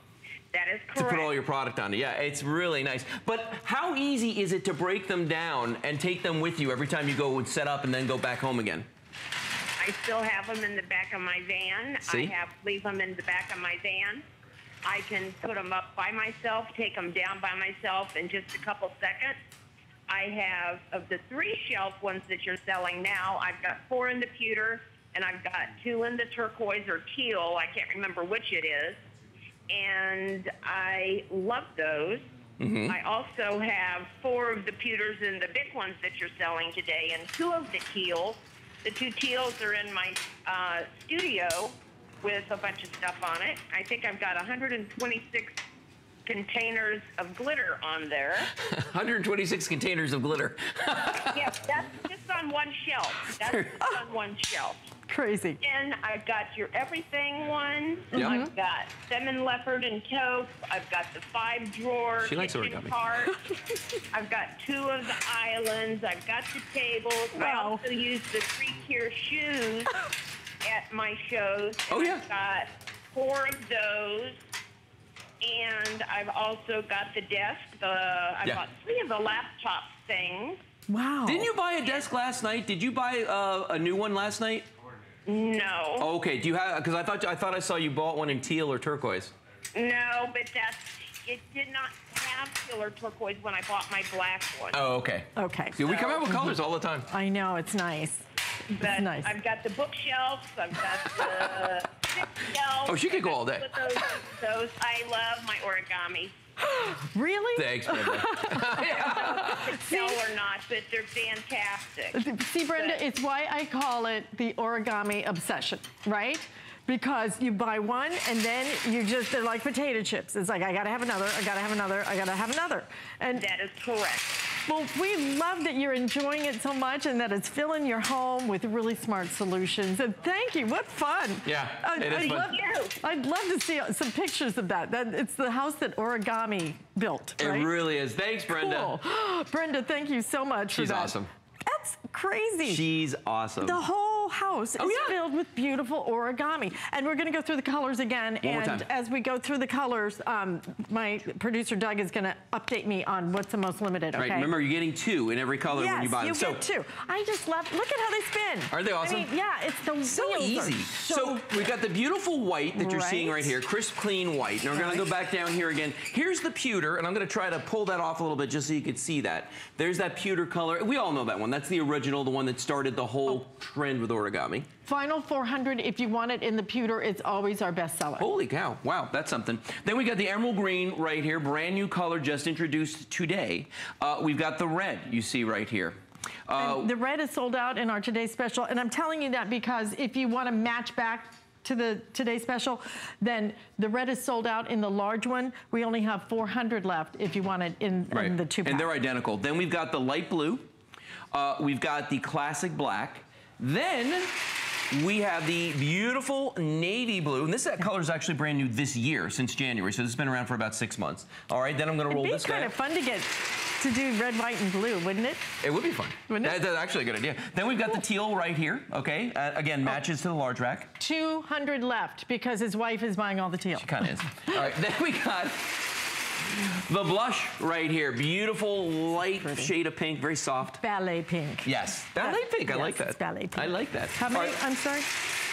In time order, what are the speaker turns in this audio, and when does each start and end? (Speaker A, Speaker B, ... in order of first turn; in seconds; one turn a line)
Speaker A: 0.5-1.3
Speaker B: 0.9-8.9
Speaker A: 9.8-14.2
Speaker B: 12.0-12.3
Speaker A: 14.8-19.4
Speaker A: 20.1-29.0
Speaker A: 29.7-32.2
Speaker B: 32.6-33.0
Speaker A: 32.9-45.6
Speaker A: 46.2-48.5
Speaker B: 48.6-51.5
Speaker A: 51.3-54.8
Speaker B: 53.4-53.8
Speaker C: 55.1-55.6
Speaker A: 55.6-63.4
Speaker C: 58.1-58.5
Speaker B: 58.1-58.4
Speaker B: 62.2-63.0
Speaker A: 64.1-70.0
Speaker C: 67.3-67.8
Speaker A: 70.6-74.4
Speaker B: 71.9-72.2
Speaker A: 75.4-80.6
Speaker C: 80.9-81.5
Speaker B: 81.2-84.7
Speaker A: 85.2-86.1
Speaker B: 86.0-89.3
Speaker A: 89.7-94.8
Speaker B: 94.7-97.1
Speaker C: 95.3-98.2
Speaker A: 98.7-106.3
Speaker C: 98.8-99.3
Speaker B: 102.8-103.8
Speaker C: 106.6-110.2
Speaker B: 107.5-109.7
Speaker A: 108.9-112.2
Speaker C: 112.1-123.4
Speaker A: 112.7-113.0
Speaker A: 123.3-124.4
Speaker C: 124.7-137.7
Speaker B: 131.4-132.6
Speaker A: 132.1-132.9
Speaker B: 137.4-138.9
Speaker C: 138.5-142.9
Speaker B: 140.7-141.3
Speaker B: 142.6-143.8
Speaker C: 143.6-154.5
Speaker B: 144.8-145.2
Speaker B: 148.4-148.8
Speaker B: 154.1-156.6
Speaker C: 155.7-161.7
Speaker B: 158.7-159.3
Speaker B: 160.0-174.7
Speaker C: 162.8-163.6
Speaker C: 164.7-165.0
Speaker C: 174.8-178.3
Speaker B: 178.2-186.9
Speaker C: 186.6-198.9
Speaker B: 198.1-200.7
Speaker B: 201.3-204.4
Speaker B: 204.9-212.7
Speaker C: 212.1-215.5
Speaker B: 215.6-220.9
Speaker C: 216.3-216.6
Speaker C: 221.0-224.2
Speaker B: 223.7-226.0
Speaker B: 226.6-230.8
Speaker C: 229.3-229.7
Speaker C: 230.8-235.1
Speaker B: 231.6-234.6